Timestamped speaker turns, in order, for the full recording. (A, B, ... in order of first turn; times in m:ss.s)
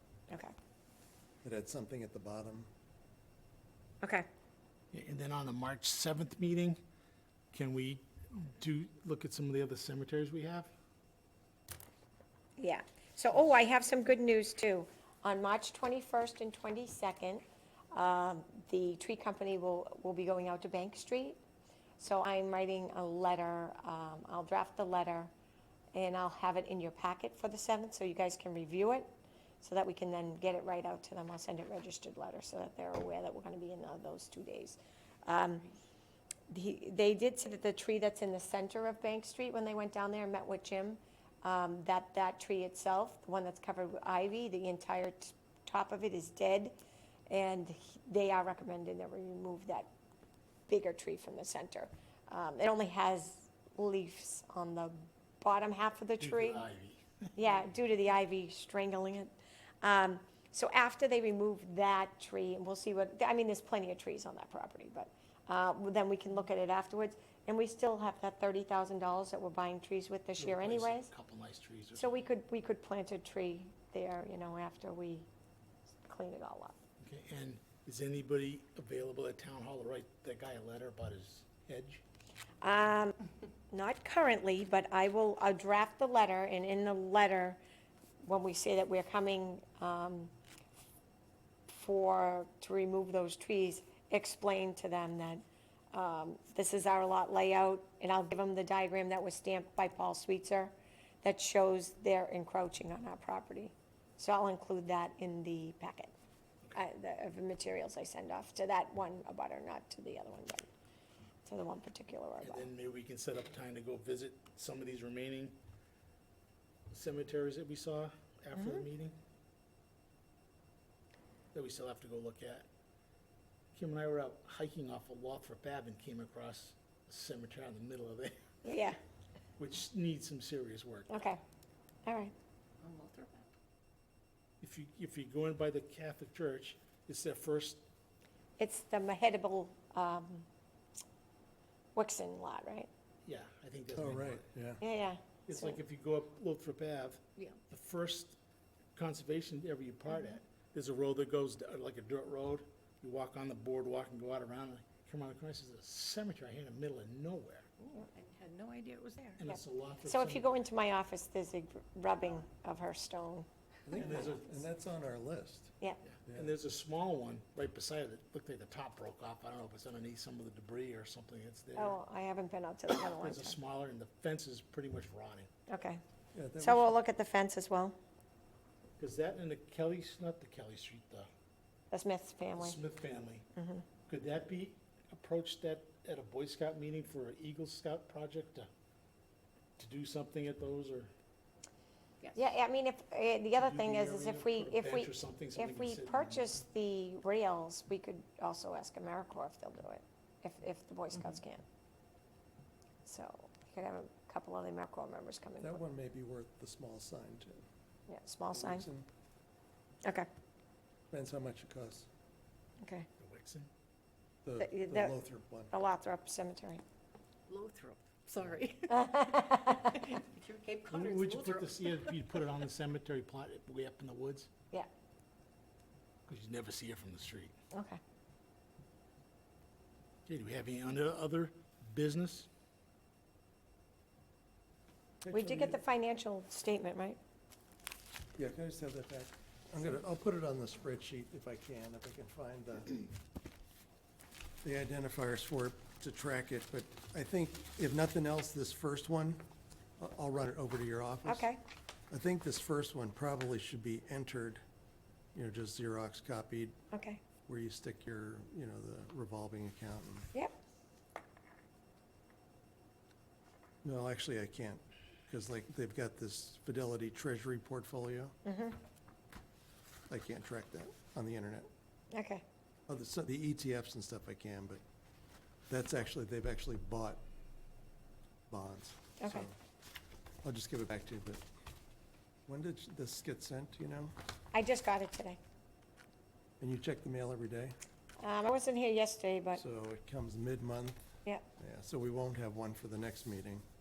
0:00.3-0:00.5 A
0:01.4-0:02.7 B
0:04.0-0:04.3 A
0:04.9-0:06.8 C
0:07.5-0:10.7 C
0:12.6-0:21.4 A
0:22.0-0:25.3 A
0:25.9-0:29.1 A
0:29.6-0:35.7 A
0:36.5-0:46.8 A
0:47.3-0:49.9 A
0:50.7-0:56.6 A
0:56.2-0:57.4 C
0:57.4-1:11.1 A
1:10.4-1:12.2 C
1:12.0-1:15.3 A
1:16.1-1:16.8 A
1:17.0-1:22.0 C
1:22.6-1:23.2 A
1:23.7-1:27.6 A
1:28.2-1:30.3 A
1:31.7-1:46.1 A
1:46.7-1:50.7 A
1:51.5-1:52.7 A
1:52.4-1:55.6 C
1:56.9-1:59.2 C
1:58.5-1:58.8 A
2:01.5-2:02.7 C
2:03.7-2:08.7 C
2:08.6-2:09.0 A
2:09.6-2:11.3 C
2:11.1-2:11.4 A
2:12.1-2:12.3 A
2:12.8-2:13.5 D
2:14.6-2:17.8 C
2:18.6-2:20.5 A
2:22.0-2:22.9 A
2:23.2-2:24.5 C
2:24.0-2:24.8 B
2:24.8-2:25.8 A
2:25.5-2:28.4 C
2:29.0-2:37.7 C
2:37.8-2:39.5 D
2:39.4-2:40.6 C
2:39.5-2:43.5 A
2:43.9-2:44.4 C
2:43.9-2:45.7 B
2:46.1-2:52.0 C
2:51.8-2:53.6 A
2:52.9-2:55.5 C
2:55.7-2:56.0 A
2:56.3-2:57.0 B
2:56.6-2:58.0 A
2:59.0-3:01.3 C
3:01.9-3:02.8 A
3:02.6-3:03.5 C
3:03.6-3:03.9 A
3:04.1-3:08.7 C
3:09.8-3:11.1 C
3:12.2-3:12.5 D
3:12.4-3:21.6 A
3:13.6-3:16.6 C
3:23.0-3:25.8 A
3:25.6-3:27.6 B
3:28.1-3:28.8 A
3:28.5-3:29.1 B
3:31.1-3:32.1 B
3:32.8-3:33.1 A
3:33.2-3:33.7 C
3:34.4-3:35.8 B
3:34.6-3:35.2 A
3:35.7-3:36.8 A
3:37.5-3:42.4 D
3:38.9-3:40.0 A
3:40.9-3:44.5 C
3:46.3-3:47.5 C
3:47.7-3:48.0 A
3:50.3-3:52.5 C
3:55.2-3:55.8 B
3:55.3-3:57.2 A
3:58.4-4:03.0 B
4:04.6-4:09.4 B
4:10.0-4:11.5 B
4:11.2-4:11.6 A
4:12.1-4:14.6 B
4:15.4-4:16.8 B
4:16.9-4:17.2 A
4:17.4-4:20.3 B
4:23.8-4:28.4 B
4:28.4-4:28.8 A
4:30.1-4:31.7 B
4:32.1-4:32.4 A
4:32.9-4:34.8 B
4:35.7-4:37.2 B
4:38.5-4:39.6 B
4:39.2-4:39.5 A
4:40.4-4:41.4 B
4:42.5-4:44.1 B
4:44.5-4:45.4 A
4:46.6-4:47.8 B
4:48.2-4:49.6 A
4:49.5-4:51.0 B
4:51.6-4:53.6 B